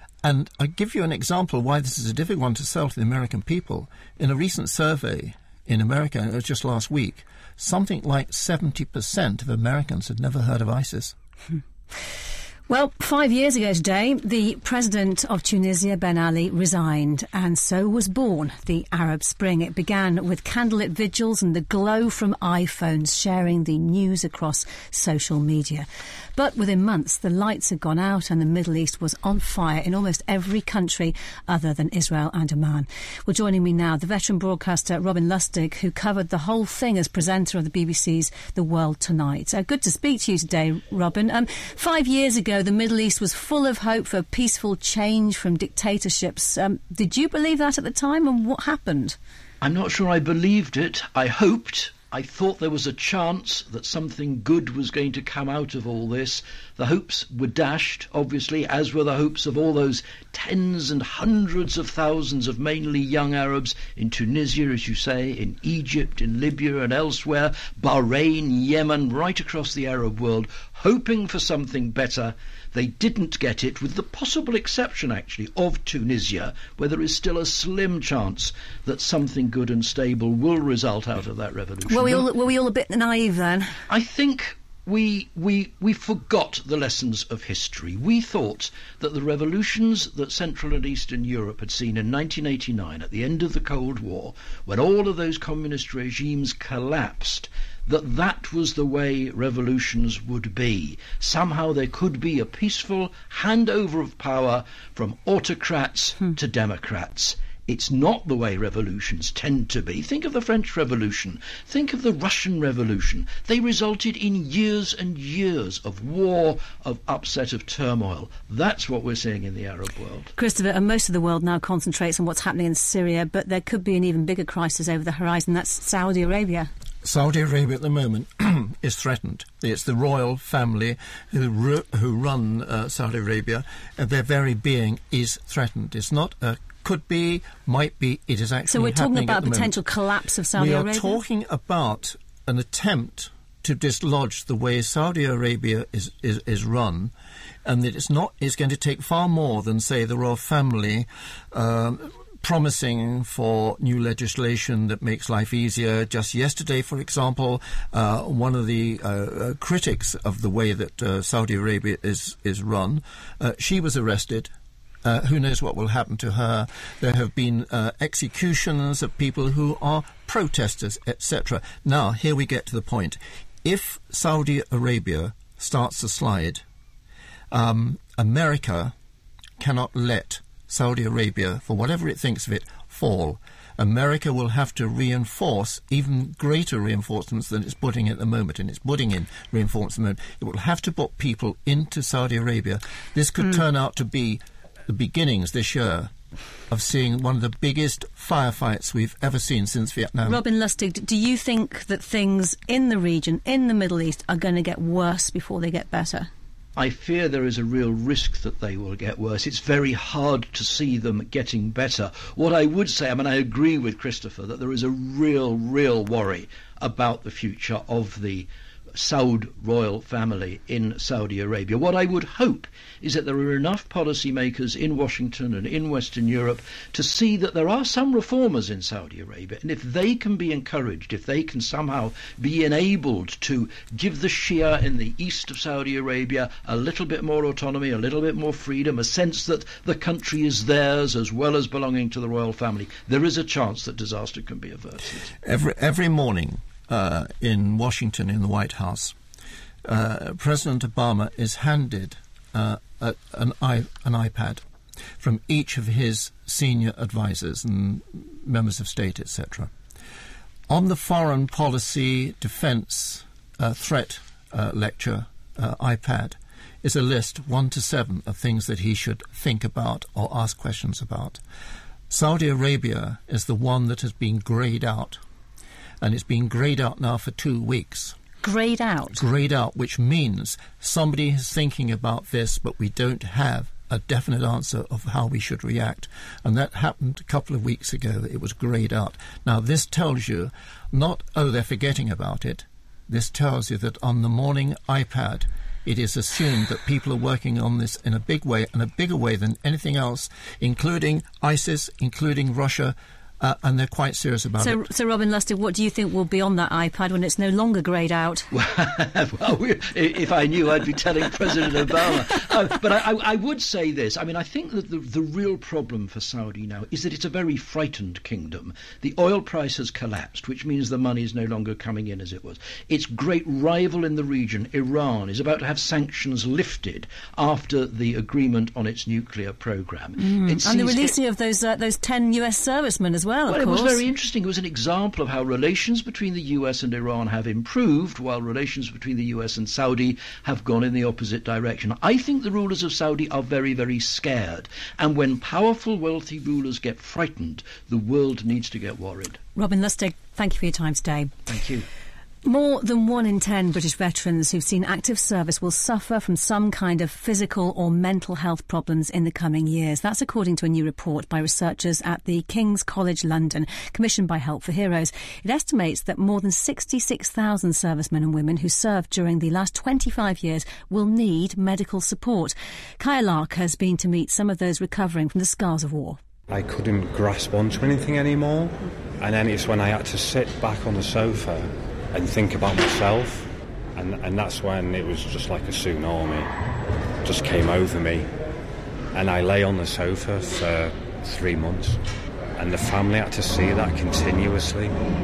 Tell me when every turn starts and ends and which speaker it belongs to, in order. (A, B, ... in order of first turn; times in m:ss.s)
0:00.2-0:11.2 A
0:12.7-0:49.2 B
0:49.6-1:22.3 C
1:21.9-1:23.8 B
1:23.9-2:00.3 C
2:00.4-2:06.7 B
2:07.0-2:19.8 A
2:18.7-2:21.2 B
2:20.6-2:27.1 A
2:27.6-2:44.5 A
2:45.0-2:56.6 A
2:57.5-2:58.9 A
2:59.6-3:16.1 A
3:16.7-3:20.4 A
3:20.2-3:26.3 B
3:26.8-4:05.3 C
4:05.4-4:09.2 A
4:09.8-4:14.6 A
4:15.2-4:19.7 A
4:20.7-4:31.4 A
4:32.1-4:35.2 A
4:36.0-4:38.2 A
4:38.4-4:39.2 B
4:39.2-5:04.8 A
5:04.6-5:08.5 B
5:08.5-5:31.2 C
5:30.2-5:34.0 B
5:33.5-5:49.4 C
5:49.6-5:51.4 B
5:51.5-5:51.9 C
5:52.4-6:16.2 B
6:16.5-6:26.5 D
6:27.2-6:28.3 D
6:29.1-6:32.0 D
6:32.6-6:34.9 D